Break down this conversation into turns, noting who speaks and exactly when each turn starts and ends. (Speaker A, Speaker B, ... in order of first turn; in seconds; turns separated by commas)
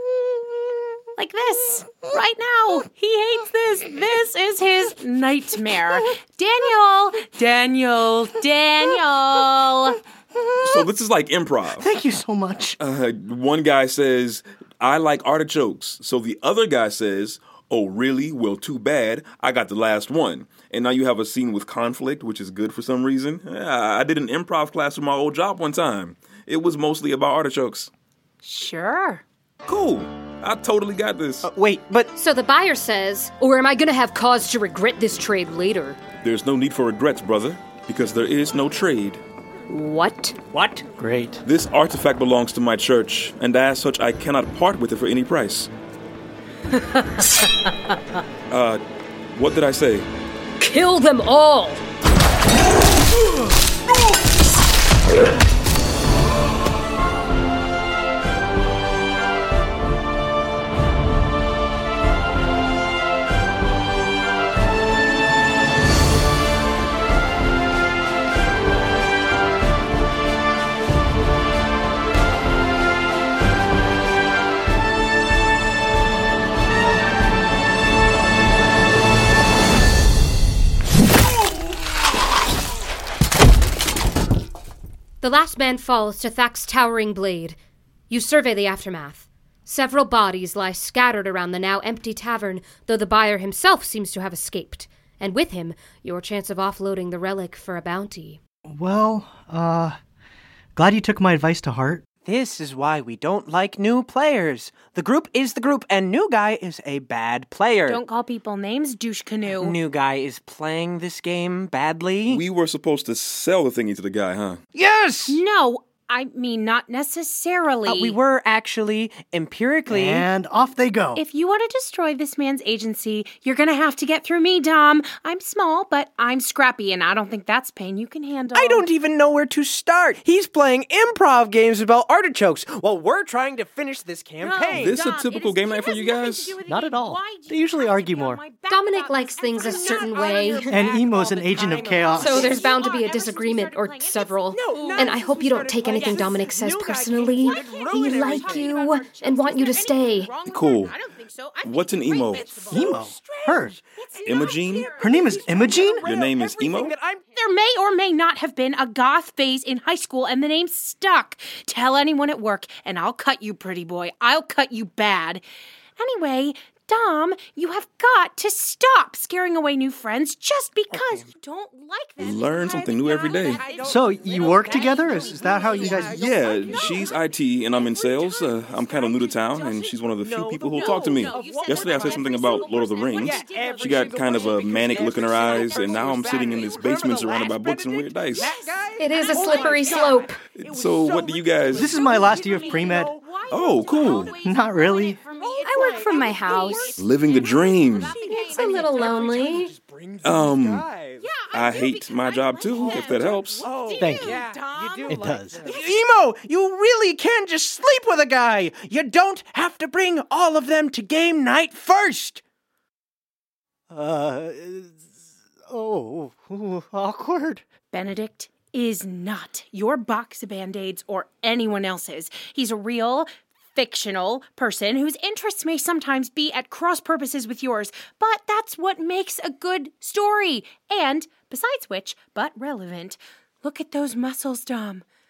Speaker A: 1.2-10.0, Speaker B: 10.6-11.8, Speaker C: 11.8-12.8, Speaker B: 12.8-27.9, Speaker A: 28.4-29.2, Speaker B: 29.6-31.5, Speaker D: 31.4-32.1, Speaker E: 32.1-36.0, Speaker B: 36.2-39.2, Speaker E: 39.7-40.4, Speaker D: 40.5-40.8, Speaker C: 41.0-41.4, Speaker B: 41.4-45.7, Speaker B: 48.5-48.8, Speaker B: 49.3-50.1, Speaker E: 50.6-51.8, Speaker E: 85.2-87.5, Speaker E: 88.1-98.4, Speaker C: 98.6-100.0, Speaker C: 100.8-102.0, Speaker D: 102.2-108.0, Speaker A: 107.9-109.8, Speaker D: 109.6-112.4, Speaker B: 112.3-114.6, Speaker D: 114.7-115.4, Speaker A: 115.3-118.2, Speaker D: 117.8-120.3, Speaker C: 119.9-121.2, Speaker A: 121.2-128.8, Speaker D: 128.5-135.0, Speaker A: 134.4-145.2, Speaker B: 134.7-136.6, Speaker C: 136.6-138.4, Speaker E: 138.7-140.7, Speaker D: 139.6-142.6, Speaker C: 140.7-142.6, Speaker E: 142.2-150.3, Speaker D: 144.5-148.7, Speaker A: 145.9-146.3, Speaker A: 147.4-153.0, Speaker B: 150.4-150.9, Speaker B: 151.6-152.5, Speaker D: 152.3-157.3, Speaker C: 152.7-153.8, Speaker A: 154.0-156.0, Speaker B: 154.2-154.9, Speaker C: 155.0-156.1, Speaker B: 156.0-156.9, Speaker A: 157.3-165.4, Speaker A: 166.0-179.9, Speaker B: 172.2-173.6, Speaker D: 172.8-177.2, Speaker C: 173.8-176.3, Speaker B: 176.1-188.5, Speaker D: 177.9-193.3, Speaker A: 180.7-187.5, Speaker A: 188.3-190.0, Speaker E: 189.0-190.4, Speaker B: 190.5-191.9, Speaker C: 191.7-193.1, Speaker A: 191.9-199.3, Speaker B: 193.5-194.3, Speaker D: 193.9-194.3, Speaker C: 194.3-195.2, Speaker D: 195.4-201.3, Speaker E: 195.7-196.9, Speaker B: 197.0-198.1, Speaker E: 198.2-199.7, Speaker B: 200.2-200.9, Speaker A: 201.2-205.9, Speaker B: 201.5-203.7, Speaker D: 202.8-212.4, Speaker C: 204.0-204.4, Speaker C: 205.1-205.7, Speaker C: 213.9-215.1, Speaker C: 215.7-217.6, Speaker A: 217.9-235.0